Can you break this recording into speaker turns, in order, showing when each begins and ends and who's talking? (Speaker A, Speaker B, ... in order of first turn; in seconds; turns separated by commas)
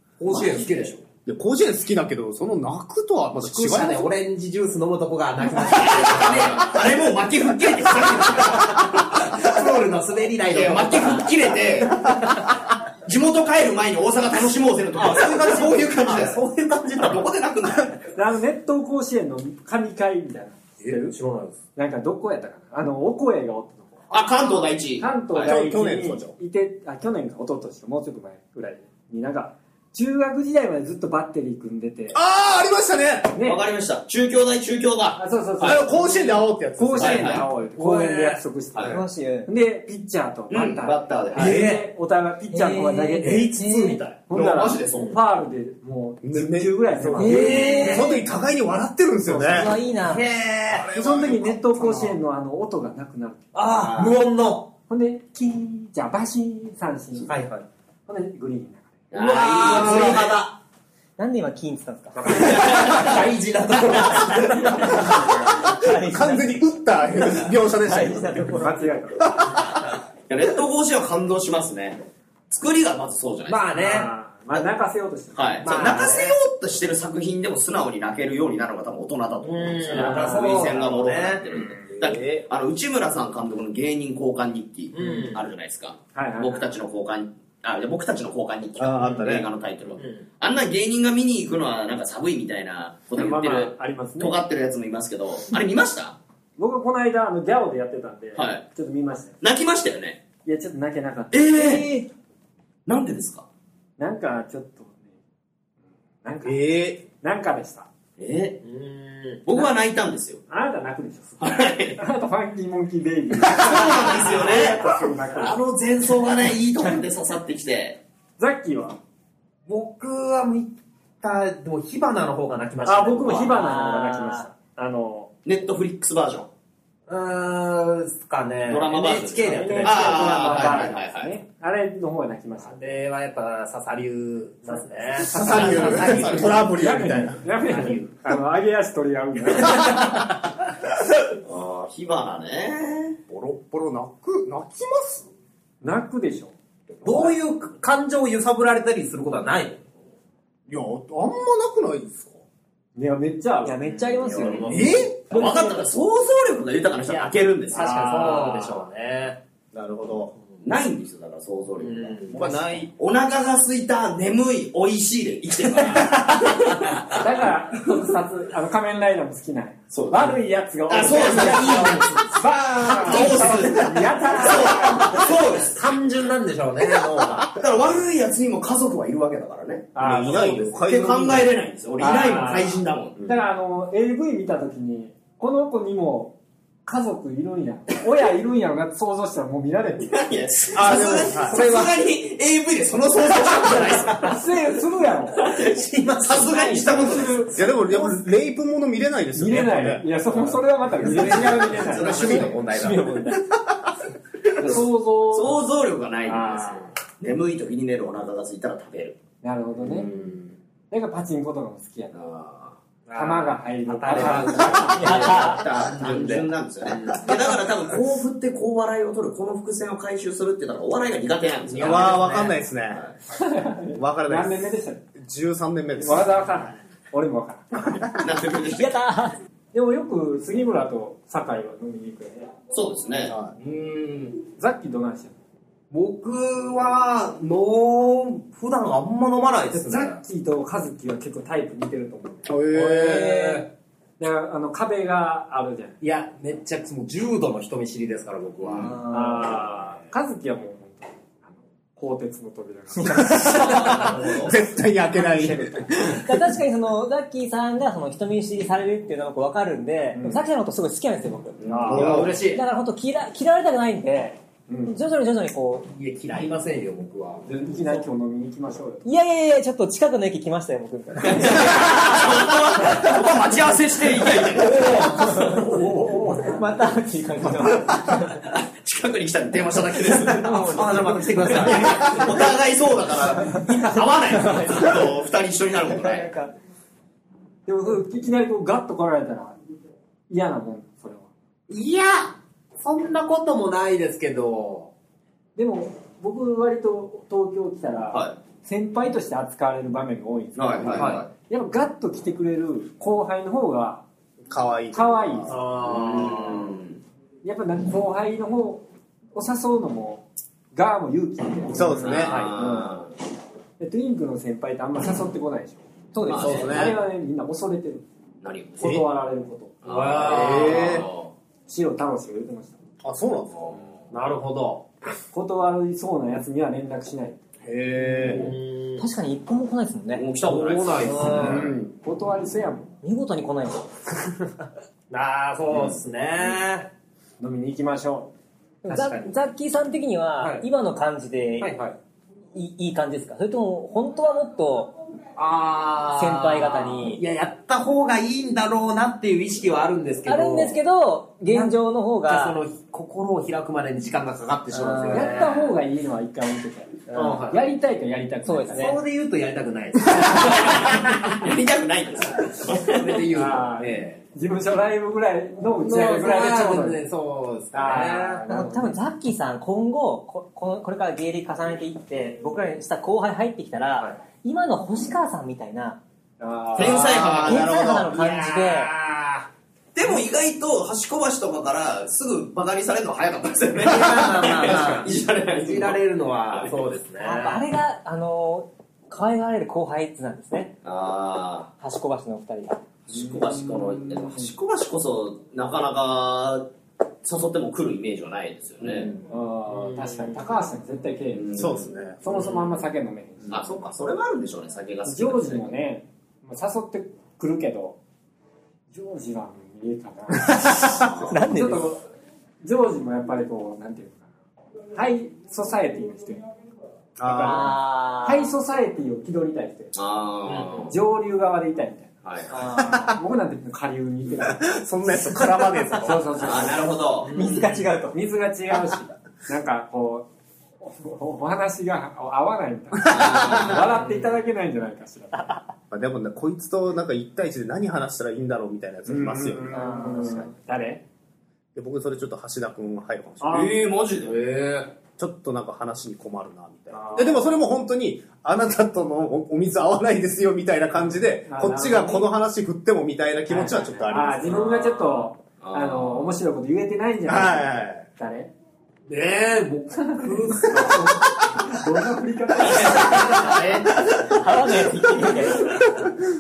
Speaker A: 0.2-1.0, Speaker B: 0.3-0.7, Speaker C: 1.2-4.1, Speaker A: 3.3-6.8, Speaker B: 5.6-9.5, Speaker A: 7.8-12.3, Speaker B: 10.5-12.2, Speaker B: 13.0-16.4, Speaker A: 14.9-17.3, Speaker B: 17.0-18.1, Speaker D: 18.1-21.2, Speaker A: 20.8-21.6, Speaker D: 21.8-24.2, Speaker B: 24.1-25.5, Speaker D: 25.0-32.2, Speaker C: 25.4-26.3, Speaker C: 32.1-33.4, Speaker D: 33.3-33.6, Speaker B: 33.4-35.8, Speaker D: 35.2-48.0, Speaker C: 35.6-37.4, Speaker B: 37.0-37.5, Speaker A: 37.8-38.4, Speaker B: 38.7-39.0, Speaker E: 38.9-39.5, Speaker B: 40.5-41.6, Speaker A: 41.3-41.9, Speaker E: 42.5-44.0, Speaker A: 43.2-44.1, Speaker B: 44.3-45.2, Speaker C: 46.2-49.8, Speaker A: 47.1-48.1, Speaker E: 47.1-48.1, Speaker E: 49.3-50.2, Speaker A: 50.0-50.9, Speaker C: 50.7-52.2, Speaker D: 50.9-53.5, Speaker A: 53.5-54.7, Speaker B: 53.6-54.2, Speaker D: 54.9-57.3, Speaker A: 57.2-57.6, Speaker D: 58.1-58.9, Speaker B: 59.1-60.4, Speaker A: 59.1-60.5, Speaker E: 61.2-63.0, Speaker A: 62.2-65.2, Speaker B: 62.7-63.1, Speaker E: 63.9-66.6, Speaker C: 65.1-68.6, Speaker E: 67.8-68.8, Speaker D: 68.5-69.3, Speaker C: 69.2-69.8, Speaker B: 70.3-73.7, Speaker A: 73.5-74.1, Speaker D: 73.7-76.1, Speaker B: 75.3-96.2, Speaker A: 75.6-76.4, Speaker A: 79.4-81.5, Speaker D: 79.9-80.7, Speaker C: 81.8-82.4, Speaker A: 84.9-85.4, Speaker D: 86.1-86.7, Speaker C: 88.8-89.5, Speaker A: 90.0-90.2, Speaker D: 93.1-94.4, Speaker D: 96.6-99.4, Speaker B: 98.3-98.6, Speaker B: 99.4-100.2, Speaker D: 100.4-101.9, Speaker B: 101.3-101.9, Speaker E: 101.7-102.0, Speaker B: 102.8-103.5, Speaker D: 104.0-105.1, Speaker D: 106.2-107.9, Speaker C: 106.4-107.0, Speaker B: 108.2-108.6, Speaker A: 108.6-109.4, Speaker B: 109.4-110.4, Speaker D: 110.5-115.6, Speaker B: 111.4-112.0, Speaker B: 113.4-118.0, Speaker D: 118.4-119.0, Speaker A: 119.7-123.6, Speaker D: 122.8-125.3, Speaker E: 123.4-124.5, Speaker B: 125.4-126.5, Speaker A: 127.1-130.9, Speaker B: 128.7-131.3, Speaker D: 129.4-132.9, Speaker A: 132.6-136.7, Speaker C: 135.3-137.4, Speaker D: 135.3-140.2, Speaker B: 135.4-136.6, Speaker A: 137.6-138.1, Speaker B: 141.4-143.2, Speaker C: 143.3-145.3, Speaker D: 145.8-146.5, Speaker C: 147.0-147.3, Speaker A: 147.0-149.8, Speaker C: 150.7-152.4, Speaker D: 152.9-155.0, Speaker E: 153.7-154.8, Speaker A: 153.8-155.0, Speaker C: 154.7-155.2, Speaker B: 154.8-157.9, Speaker E: 155.3-155.8, Speaker A: 157.0-159.4, Speaker D: 157.7-158.7, Speaker C: 159.7-160.3, Speaker B: 160.6-167.4, Speaker A: 161.8-162.4, Speaker C: 162.3-162.9, Speaker D: 167.1-175.3, Speaker B: 169.9-175.8, Speaker A: 171.1-172.1, Speaker A: 173.2-173.5, Speaker A: 175.0-177.5, Speaker B: 177.4-183.2, Speaker D: 179.9-180.6, Speaker C: 180.0-181.5, Speaker D: 182.0-186.3, Speaker C: 183.2-183.4, Speaker D: 186.8-190.2, Speaker B: 190.0-194.4, Speaker C: 190.7-191.6, Speaker A: 191.4-191.9, Speaker A: 193.4-194.2, Speaker D: 194.0-195.6, Speaker B: 195.4-197.5, Speaker A: 195.5-197.1, Speaker D: 196.5-198.2, Speaker C: 197.5-200.4, Speaker D: 199.3-202.5, Speaker A: 200.9-203.1, Speaker C: 201.0-202.5, Speaker B: 201.2-203.0, Speaker E: 202.8-203.3, Speaker B: 204.5-209.2, Speaker D: 204.6-205.6, Speaker D: 206.3-206.8, Speaker A: 206.4-206.7, Speaker D: 209.4-210.1, Speaker D: 210.9-212.2, Speaker B: 212.1-212.8, Speaker A: 213.1-217.6, Speaker D: 213.1-215.5, Speaker B: 214.1-223.1, Speaker E: 214.9-215.7, Speaker A: 221.6-222.6, Speaker C: 221.8-223.1, Speaker D: 223.3-225.0, Speaker C: 223.9-226.3, Speaker D: 226.0-228.2, Speaker B: 228.2-228.9, Speaker E: 228.7-229.4, Speaker D: 229.7-232.5, Speaker B: 232.7-234.4, Speaker C: 233.3-233.5, Speaker D: 234.6-235.3, Speaker A: 235.9-240.2, Speaker D: 239.7-242.6, Speaker C: 242.4-243.4, Speaker A: 242.7-243.7, Speaker D: 244.2-246.0, Speaker A: 246.0-249.0, Speaker B: 248.6-248.9, Speaker E: 248.8-249.5, Speaker D: 249.1-254.5, Speaker B: 253.6-254.5, Speaker C: 254.3-256.4, Speaker D: 255.1-256.2, Speaker E: 256.1-265.9, Speaker D: 260.1-260.4, Speaker B: 261.6-262.4, Speaker D: 261.7-262.0, Speaker A: 261.8-262.6, Speaker C: 261.9-262.3, Speaker D: 264.7-265.0, Speaker A: 265.9-267.4, Speaker D: 267.4-269.1, Speaker E: 269.0-273.1, Speaker B: 271.3-275.6, Speaker A: 274.6-276.3, Speaker E: 274.9-278.4, Speaker D: 275.7-276.5, Speaker B: 277.9-286.3, Speaker E: 280.1-282.2, Speaker A: 280.4-282.4, Speaker A: 283.6-284.6, Speaker E: 284.4-285.1, Speaker E: 285.9-286.5, Speaker D: 287.6-289.6, Speaker D: 290.3-291.3, Speaker A: 291.7-294.9, Speaker D: 295.6-304.0, Speaker B: 300.6-301.3, Speaker A: 300.9-301.2, Speaker C: 304.5-305.6, Speaker D: 304.9-305.5, Speaker A: 305.5-306.7, Speaker B: 305.8-307.0, Speaker D: 307.4-308.8, Speaker D: 309.3-313.0, Speaker C: 311.7-312.5, Speaker B: 312.0-313.1, Speaker A: 312.2-312.5, Speaker D: 313.8-318.0, Speaker E: 316.1-316.7, Speaker B: 316.2-316.8, Speaker C: 316.3-317.0, Speaker B: 318.4-318.8, Speaker D: 318.8-319.8, Speaker B: 319.8-321.3, Speaker A: 319.8-321.0, Speaker C: 320.2-321.0, Speaker D: 321.7-322.8, Speaker C: 323.0-323.7, Speaker A: 324.1-324.8, Speaker D: 325.3-327.4, Speaker C: 327.6-328.5, Speaker A: 328.2-329.0, Speaker E: 329.0-330.2, Speaker B: 330.1-331.7, Speaker A: 330.4-331.7, Speaker D: 331.2-332.9, Speaker C: 331.4-331.9, Speaker E: 333.0-333.9, Speaker A: 335.1-336.9, Speaker D: 337.4-338.3, Speaker E: 338.8-341.7, Speaker A: 338.9-339.3, Speaker A: 340.4-340.6, Speaker A: 341.6-341.9, Speaker E: 342.5-344.9, Speaker A: 345.4-350.8, Speaker E: 346.1-347.2, Speaker E: 350.2-352.6, Speaker A: 351.5-355.7, Speaker E: 354.7-355.5, Speaker D: 355.1-358.9, Speaker A: 357.1-357.6, Speaker E: 358.4-359.0, Speaker A: 358.7-361.2, Speaker B: 360.2-363.2, Speaker A: 362.6-364.2, Speaker D: 363.3-367.0, Speaker A: 365.8-368.4, Speaker D: 367.7-369.0, Speaker E: 368.4-376.0, Speaker D: 376.4-377.1, Speaker A: 376.7-379.5, Speaker B: 376.8-378.1, Speaker E: 377.1-378.9, Speaker B: 379.9-386.7, Speaker A: 383.8-387.6, Speaker E: 387.2-390.7, Speaker B: 390.8-391.7, Speaker E: 391.8-392.8, Speaker B: 393.1-396.7, Speaker B: 397.2-399.1, Speaker D: 399.3-401.5, Speaker A: 399.8-400.3, Speaker B: 401.3-401.9, Speaker C: 401.5-402.2, Speaker D: 402.2-403.6, Speaker A: 402.3-402.6, Speaker B: 403.5-405.8, Speaker D: 405.0-408.0, Speaker D: 408.9-412.0, Speaker B: 410.9-411.4, Speaker E: 411.3-411.8, Speaker D: 412.6-414.2, Speaker D: 414.9-416.4, Speaker C: 417.2-417.8, Speaker D: 417.2-419.9, Speaker E: 417.4-418.5, Speaker B: 419.9-420.9, Speaker A: 420.4-420.9, Speaker D: 420.9-422.1, Speaker B: 422.2-422.6, Speaker E: 422.5-423.1, Speaker D: 422.9-424.7, Speaker C: 424.4-426.4, Speaker D: 426.0-426.9, Speaker B: 426.4-427.3, Speaker A: 427.2-427.9, Speaker E: 427.3-428.2, Speaker D: 428.1-430.2, Speaker D: 430.8-435.6, Speaker B: 433.1-434.0, Speaker C: 433.1-433.7, Speaker A: 434.0-434.3, Speaker C: 435.9-440.3, Speaker D: 439.1-441.0, Speaker E: 439.7-440.4, Speaker C: 441.7-443.8, Speaker D: 443.4-443.7, Speaker B: 443.4-444.4, Speaker A: 444.2-444.9, Speaker C: 445.2-454.7, Speaker D: 446.9-447.5, Speaker D: 451.4-452.3, Speaker D: 453.5-458.5, Speaker A: 454.5-455.2, Speaker B: 455.6-456.3, Speaker C: 457.3-458.0, Speaker A: 459.1-461.0, Speaker D: 460.1-463.5, Speaker B: 462.6-463.9, Speaker A: 462.6-463.9, Speaker E: 464.2-465.8